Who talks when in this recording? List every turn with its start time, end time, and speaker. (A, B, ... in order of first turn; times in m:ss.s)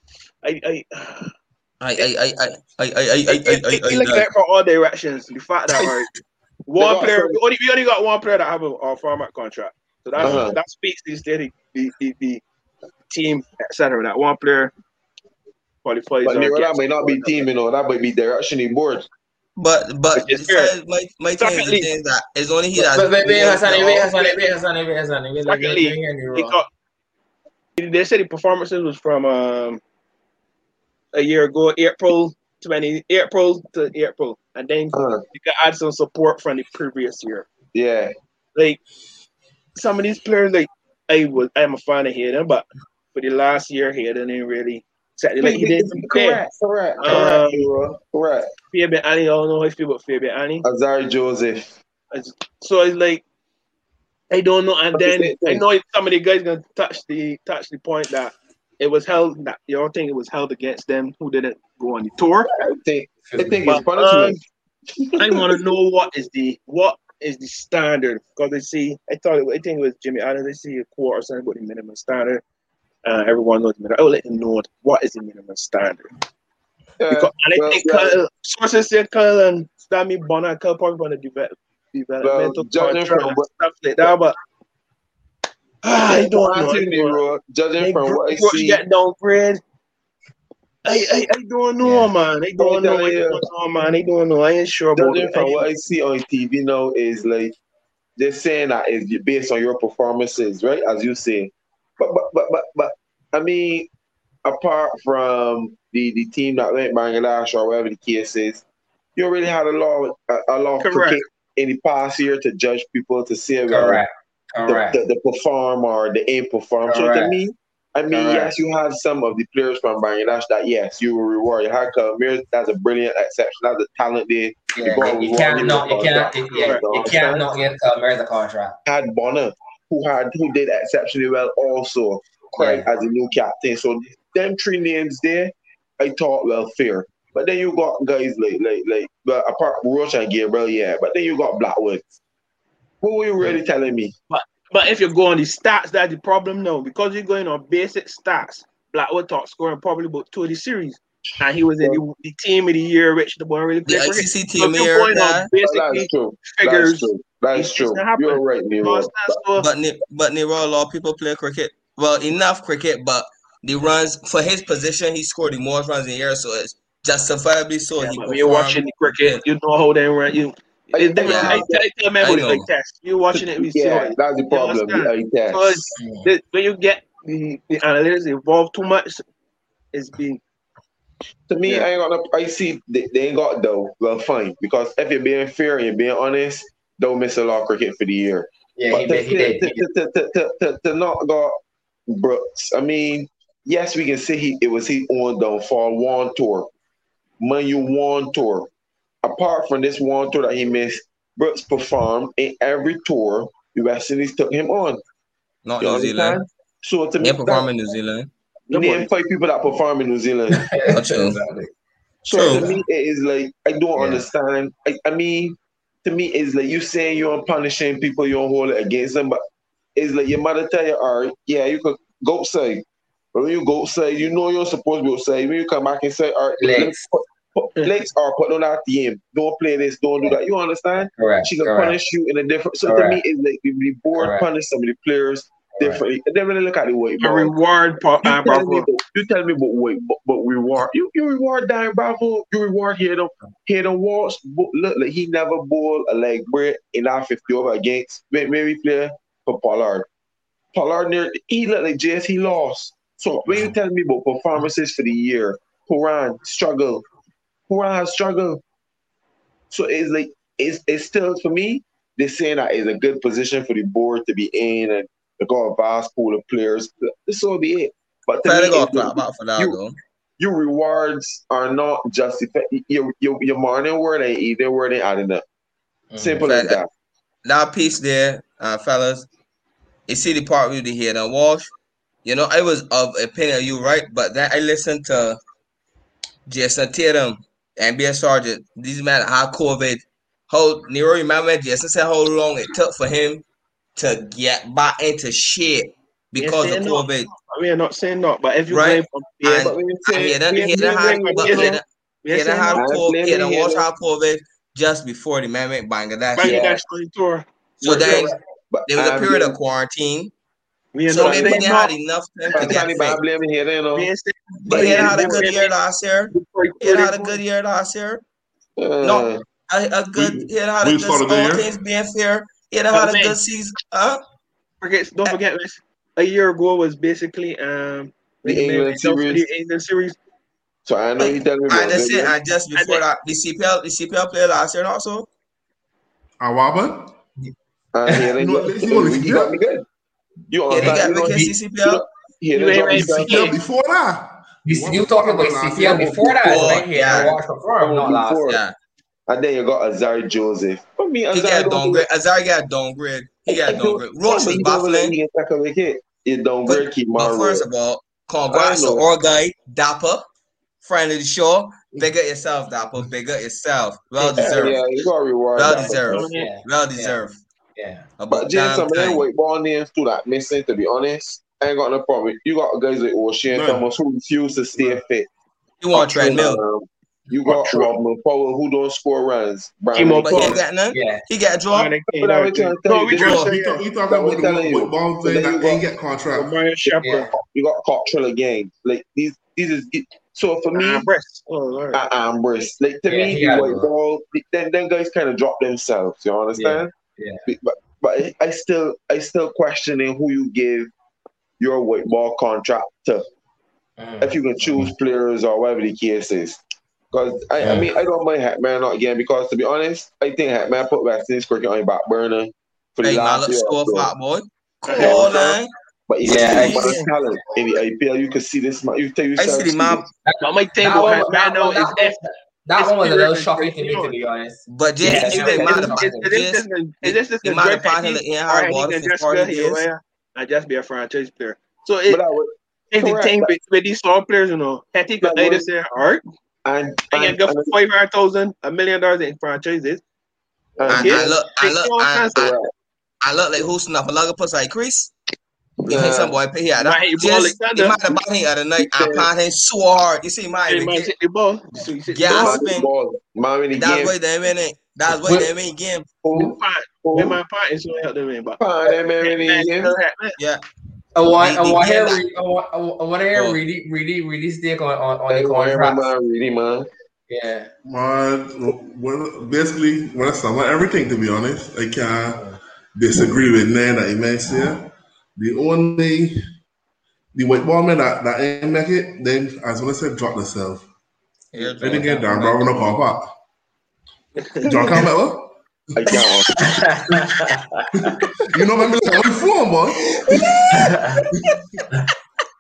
0:00.4-0:01.3 A
0:01.8-0:04.3 B
0:03.3-0:06.1 A
0:06.7-0:12.4 A
0:06.8-0:07.4 C
0:10.2-0:10.6 C
0:13.1-0:14.7 A
0:15.8-0:17.5 A
0:16.2-0:19.1 C
0:19.6-0:24.1 B
0:20.1-0:20.8 A
0:21.4-0:21.9 A
0:22.8-0:26.6 D
0:25.5-0:26.7 A
0:27.8-0:29.8 A
0:31.1-0:37.5 A
0:34.9-0:35.2 C
0:37.7-0:38.1 C
0:38.6-0:38.8 A
0:39.8-0:46.4 A
0:45.4-0:48.5 C
0:47.0-0:47.7 A
0:48.7-0:50.7 A
0:50.6-0:51.8 C
0:52.1-0:53.2 A
0:54.3-1:02.5 A
0:55.0-0:55.6 C
1:02.6-1:04.4 C
1:03.3-1:03.8 D
1:03.7-1:04.4 A
1:04.9-1:05.6 C
1:05.2-1:12.4 A
1:13.0-1:16.1 A
1:17.0-1:18.2 C
1:17.1-1:24.4 A
1:22.2-1:23.5 C
1:25.8-1:27.2 A
1:26.0-1:28.8 C
1:27.8-1:29.6 A
1:30.8-1:35.6 A
1:31.8-1:32.1 D
1:32.6-1:33.4 C
1:35.0-1:37.6 C
1:38.2-1:43.9 C
1:44.4-1:48.6 C
1:49.2-1:54.0 C
1:50.8-1:51.2 A
1:53.7-1:55.0 D
1:54.7-2:07.5 C
1:56.9-1:57.4 D
1:58.1-1:58.5 D
2:04.8-2:08.8 D
2:06.6-2:06.8 A
2:08.9-2:22.1 C
2:12.6-2:12.9 D
2:23.0-2:24.1 C
2:24.3-2:39.7 A
2:33.9-2:35.5 B
2:35.6-2:39.4 C
2:39.6-2:49.4 B
2:48.0-2:59.2 A
2:50.9-2:51.8 C
2:51.2-2:51.7 B
2:51.3-2:51.6 D
2:52.2-2:52.7 B
2:53.3-2:55.9 C
2:56.0-2:56.3 D
2:59.9-3:00.4 A
3:01.5-3:11.5 C
3:08.8-3:09.8 D
3:12.1-3:16.7 C
3:17.4-3:18.7 C
3:19.2-3:25.0 C
3:25.6-3:26.4 B
3:25.8-3:27.7 C
3:27.2-3:28.3 B
3:28.7-3:29.1 A
3:28.7-3:30.7 C
3:30.5-3:31.7 D
3:30.9-3:31.4 B
3:32.3-3:32.7 B
3:32.3-3:39.4 C
3:34.0-3:34.3 D
3:40.0-3:57.5 C
3:46.6-3:47.0 D
3:51.2-3:52.0 D
3:52.9-3:53.2 D
3:54.2-3:54.5 D
3:57.2-3:58.9 A
3:58.2-4:10.1 C
4:10.7-4:17.0 C
4:13.5-4:13.7 D
4:17.7-4:18.6 C
4:19.7-4:29.8 C
4:28.4-4:30.0 B
4:30.4-4:35.4 C
4:36.1-4:36.5 D
4:36.2-4:36.9 C
4:36.4-4:36.8 B
4:37.4-4:39.3 B
4:40.1-4:41.7 B
4:42.2-4:45.4 B
4:46.5-4:53.4 B
4:54.0-4:57.3 B
4:56.4-4:59.4 A
4:58.7-5:06.8 B
4:59.4-5:01.8 C
5:00.6-5:02.9 A
5:02.8-5:03.9 C
5:06.4-5:08.3 A
5:06.4-5:06.8 C
5:07.8-5:08.3 B
5:07.9-5:09.6 C
5:08.9-5:10.3 B
5:10.9-5:11.9 A
5:11.1-5:13.2 B
5:11.2-5:11.6 C
5:12.5-5:12.8 A
5:12.6-5:14.1 C
5:14.0-5:15.7 A
5:14.7-5:15.5 C
5:14.7-5:18.2 B
5:16.3-5:17.4 A
5:18.8-5:19.4 C
5:19.0-5:24.2 B
5:20.2-5:21.7 E
5:22.9-5:23.4 A
5:24.8-5:30.2 A
5:28.4-5:29.4 C
5:30.8-5:32.3 C
5:31.2-5:35.3 B
5:32.8-5:33.0 A
5:36.4-5:37.1 E
5:37.9-5:39.8 C
5:38.3-5:39.6 E
5:40.5-5:43.6 C
5:40.7-5:42.0 B
5:40.8-5:41.1 D
5:42.6-5:43.6 A
5:42.9-5:46.9 E
5:44.6-5:48.4 D
5:46.4-5:47.4 B
5:47.8-5:48.6 C
5:48.5-5:48.8 B
5:49.3-5:52.1 C
5:51.3-5:55.1 B
5:53.5-5:57.7 C
5:56.7-6:00.3 B
5:58.5-5:59.1 C
6:00.8-6:04.8 B
6:04.2-6:04.6 D
6:04.4-6:06.3 C
6:05.6-6:07.4 B
6:06.0-6:06.6 A
6:06.3-6:07.2 D
6:07.8-6:08.1 D
6:08.2-6:09.3 B
6:08.3-6:15.3 C
6:13.5-6:13.9 E
6:15.8-6:16.6 B
6:15.9-6:20.6 C
6:17.6-6:17.9 A
6:19.9-6:20.6 A
6:20.2-6:21.9 B
6:20.9-6:21.2 D
6:21.7-6:23.8 A
6:22.2-6:23.5 C
6:23.2-6:26.6 E
6:24.1-6:25.8 C
6:26.3-6:27.3 A
6:26.8-6:31.1 C
6:27.0-6:27.3 D
6:30.7-6:32.0 A
6:31.9-6:36.9 C
6:33.1-6:33.9 D
6:36.6-6:37.4 D
6:37.5-6:40.9 C
6:41.6-6:43.2 C
6:44.0-6:44.9 D
6:44.2-6:46.6 C
6:47.1-6:54.1 C
6:47.6-6:47.9 D
6:53.0-6:55.7 B
6:54.9-6:55.6 A
6:55.0-6:55.4 C
6:56.1-7:00.1 C
6:56.2-6:57.0 B
6:56.2-6:57.0 D
6:56.7-6:57.1 A
6:59.4-7:00.1 B
7:00.3-7:06.3 D
7:00.4-7:02.2 A
7:02.8-7:04.1 A
7:04.7-7:09.9 B
7:05.1-7:12.2 A
7:12.1-7:13.6 C
7:12.9-7:16.2 A
7:15.2-7:15.7 C
7:16.6-7:17.7 C
7:17.1-7:20.0 A
7:20.8-7:21.4 C
7:20.9-7:22.5 A
7:20.9-7:22.6 B
7:22.4-7:22.7 C
7:23.2-7:25.1 B
7:25.9-7:26.4 C
7:25.9-7:31.1 B
7:26.8-7:28.2 A
7:28.8-7:29.3 C
7:30.7-7:32.7 A
7:32.1-7:32.9 B
7:32.2-7:34.2 C
7:33.8-7:36.1 B
7:35.2-7:35.5 D
7:36.2-7:37.4 C
7:36.3-7:40.4 A
7:38.6-7:40.0 C
7:41.2-7:46.1 D
7:41.4-7:42.2 B
7:43.3-7:43.6 B
7:45.3-7:46.9 C
7:47.3-7:47.7 D
7:47.8-7:56.4 E
7:57.4-8:00.8 E
8:01.5-8:02.8 B
8:01.5-8:02.2 D
8:01.8-8:03.3 E
8:04.4-8:05.0 A
8:04.6-8:07.2 E
8:06.0-8:06.5 C
8:06.6-8:08.1 D
8:08.0-8:11.6 E
8:10.7-8:11.2 D